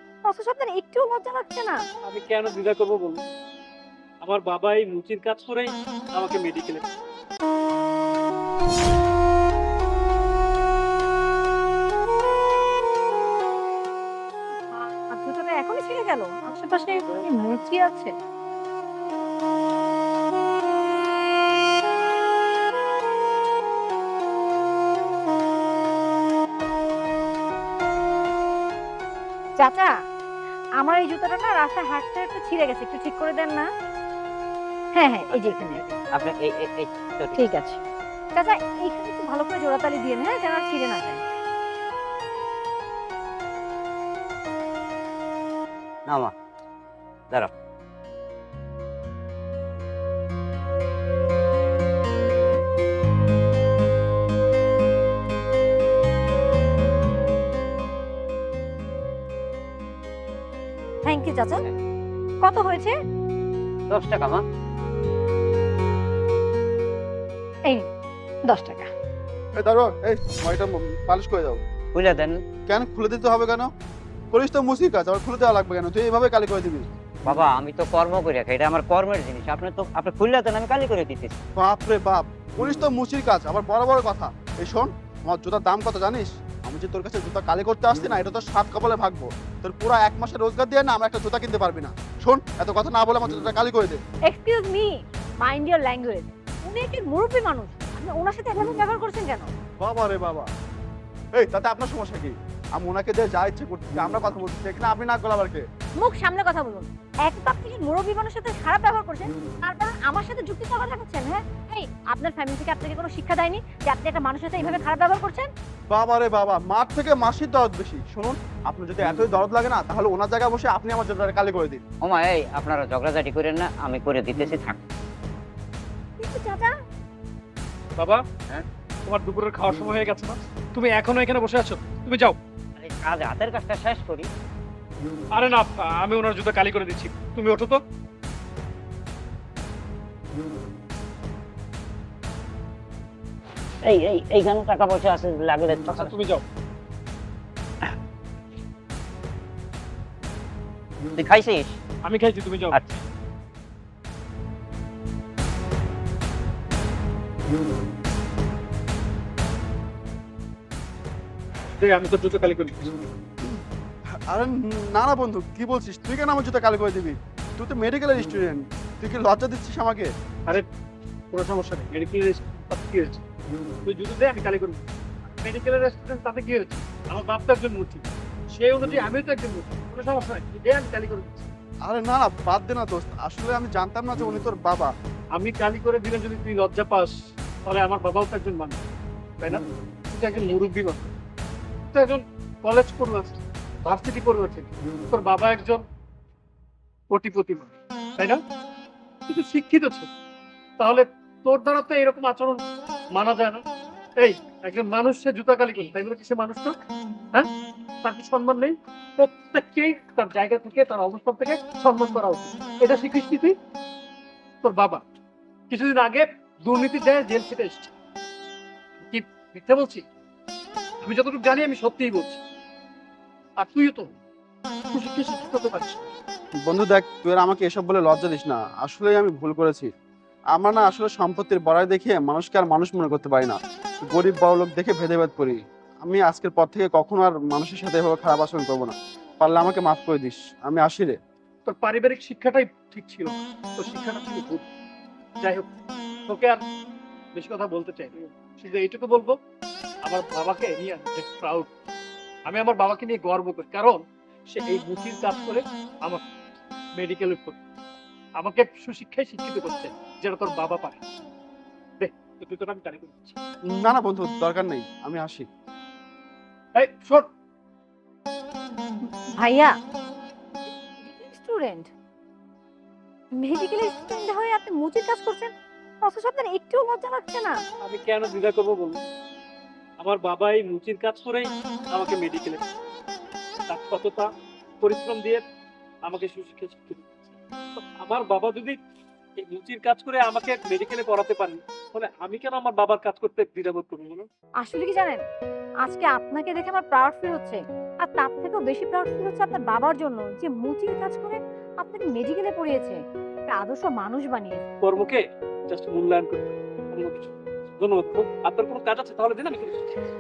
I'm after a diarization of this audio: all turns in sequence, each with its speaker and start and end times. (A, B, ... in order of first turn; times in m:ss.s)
0:00.3-0:01.8 A
0:02.0-0:03.2 B
0:04.2-0:06.9 B
0:14.7-0:18.1 A
0:29.6-0:29.9 A
0:30.8-0:33.7 A
0:35.0-0:35.8 A
0:35.3-0:36.1 B
0:36.2-0:37.4 C
0:37.4-0:37.8 A
0:38.3-0:41.2 A
0:46.1-0:46.3 C
1:01.0-1:01.6 A
1:02.4-1:02.9 A
1:03.9-1:04.4 C
1:08.4-1:08.9 A
1:09.6-1:11.6 D
1:11.9-1:12.4 C
1:12.7-1:13.7 D
1:14.3-1:16.9 D
1:17.3-1:21.4 C
1:21.6-1:34.0 D
1:34.3-1:39.5 A
1:39.8-1:40.5 D
1:41.4-1:45.6 D
1:46.0-1:55.5 A
1:55.9-2:01.8 D
2:02.0-2:04.8 C
2:06.2-2:06.7 A
2:08.0-2:08.2 B
2:09.1-2:12.4 B
2:12.8-2:14.3 C
2:15.3-2:17.8 B
2:23.8-2:26.1 C
2:25.9-2:26.4 B
2:31.2-2:31.8 C
2:32.0-2:32.8 B
2:32.7-2:33.0 C
2:41.8-2:43.1 B
2:44.3-2:50.1 D
2:51.3-2:53.2 B
2:53.8-3:01.5 B
3:01.8-3:04.9 D
3:05.4-3:07.1 B
3:07.6-3:08.8 B
3:09.4-3:11.1 B
3:11.9-3:15.8 B
3:17.1-3:18.4 B
3:19.3-3:20.1 B
3:20.8-3:22.6 B
3:23.2-3:23.6 B
3:24.2-3:26.8 B
3:28.0-3:33.6 B
3:34.6-3:35.0 B
3:35.7-3:37.9 B
3:39.1-3:40.0 B
3:41.0-3:42.4 B
3:43.6-3:44.1 B
3:44.9-3:46.1 B
3:46.6-3:49.9 D
3:50.6-4:01.2 D
4:01.6-4:04.7 B
4:05.4-4:05.7 B
4:06.3-4:06.6 B
4:07.4-4:09.4 B
4:10.0-4:11.7 B
4:12.5-4:16.2 B
4:17.0-4:17.6 B
4:18.4-4:21.0 B
4:22.0-4:23.4 B
4:23.7-4:25.5 D
4:26.7-4:27.3 B
4:29.4-4:29.7 A
4:31.0-4:31.9 A
4:33.4-4:35.5 A
4:36.0-4:37.6 A
4:37.8-4:39.0 B
4:40.0-4:42.6 B
4:43.7-4:44.3 B
4:44.8-4:45.4 B
4:46.1-4:47.1 B
4:47.8-4:48.8 B
4:49.4-4:54.3 B
4:54.6-4:55.2 A
4:55.8-5:04.7 A
5:04.8-5:09.9 B